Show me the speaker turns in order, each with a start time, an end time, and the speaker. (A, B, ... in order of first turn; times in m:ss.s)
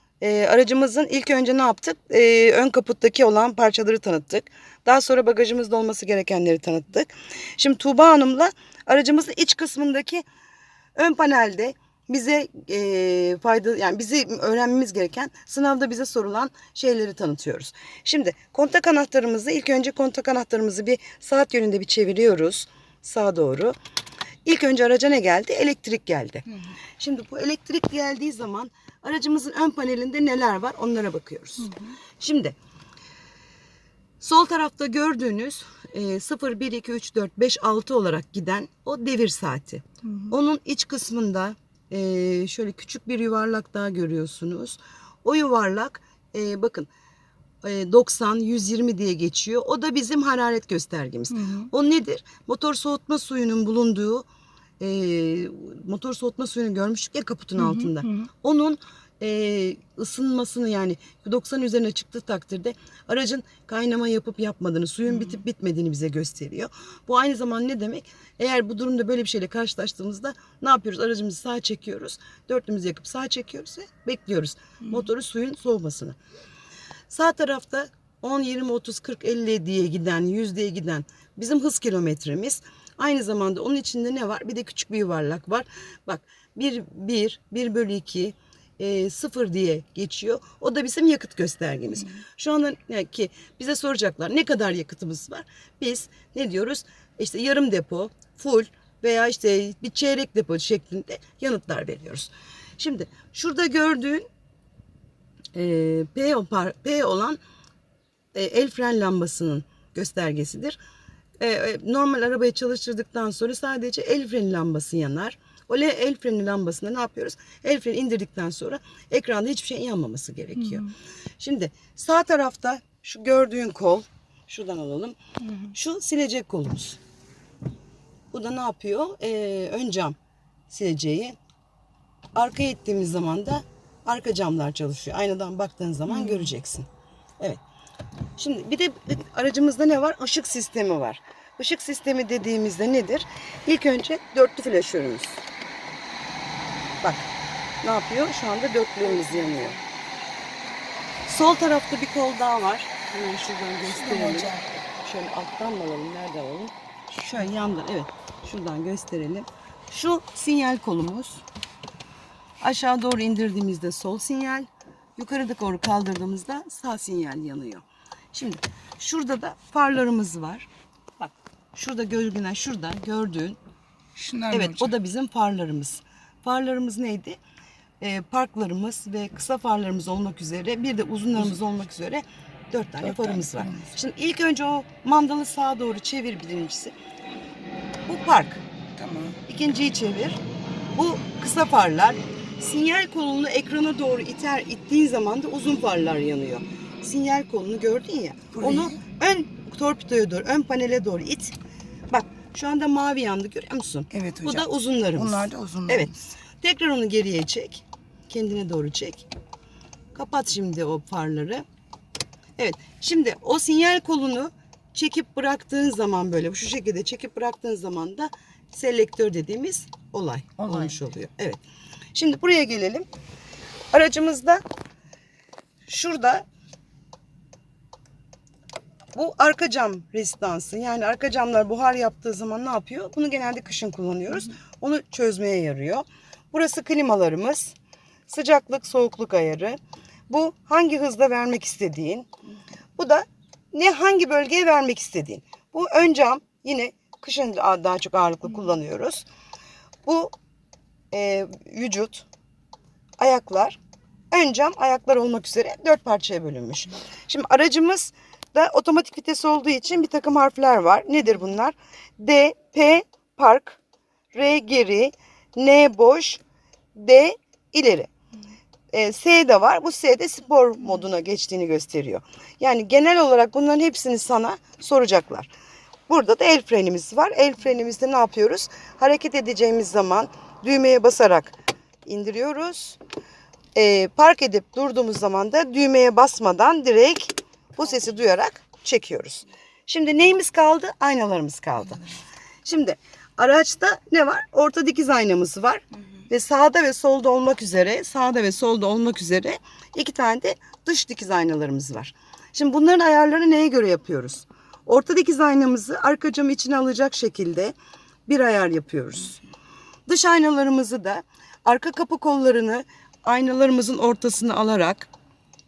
0:00.2-0:10.2 A
0:10.9-0:23.7 A
0:24.4-0:26.4 A
0:27.0-0:32.6 A
0:34.2-0:46.9 A
0:47.6-0:54.2 A
0:51.3-0:51.7 B
0:54.8-1:16.2 A
0:57.6-0:58.1 B
1:17.1-1:44.3 A
1:45.5-1:47.4 A
1:48.3-1:50.8 A
1:51.4-2:07.0 A
2:08.3-2:10.2 A
2:10.7-2:11.4 A
2:12.3-2:16.9 A
2:18.4-2:25.4 A
2:27.0-2:27.3 A
2:27.8-2:29.8 A
2:31.2-2:41.4 A
2:33.9-2:34.7 B
2:42.6-2:50.7 A
2:51.2-2:53.6 A
2:54.1-2:54.9 B
2:54.5-2:57.4 A
2:58.0-3:06.9 A
3:03.0-3:03.9 B
3:08.1-3:08.6 A
3:09.0-3:09.4 B
3:09.4-3:10.4 A
3:10.9-3:21.5 A
3:18.6-3:19.0 B
3:22.1-3:29.3 A
3:24.1-3:24.6 B
3:25.2-3:26.1 B
3:30.1-3:31.6 A
3:32.6-3:41.6 A
3:40.6-3:40.9 B
3:42.1-3:43.1 A
3:43.9-3:44.6 A
3:45.8-3:46.4 A
3:49.1-3:57.7 A
3:58.3-3:59.8 A
4:00.3-4:02.3 A
4:03.0-4:09.2 A
4:10.0-4:10.3 A
4:11.1-4:12.2 A
4:13.2-4:13.8 A
4:14.3-4:23.8 A
4:24.3-4:26.4 A
4:26.9-4:28.1 A
4:28.9-4:35.5 A
4:36.1-4:43.0 A
4:43.7-4:52.1 A
4:52.6-5:07.7 A
5:08.3-5:09.4 A
5:10.1-5:15.1 A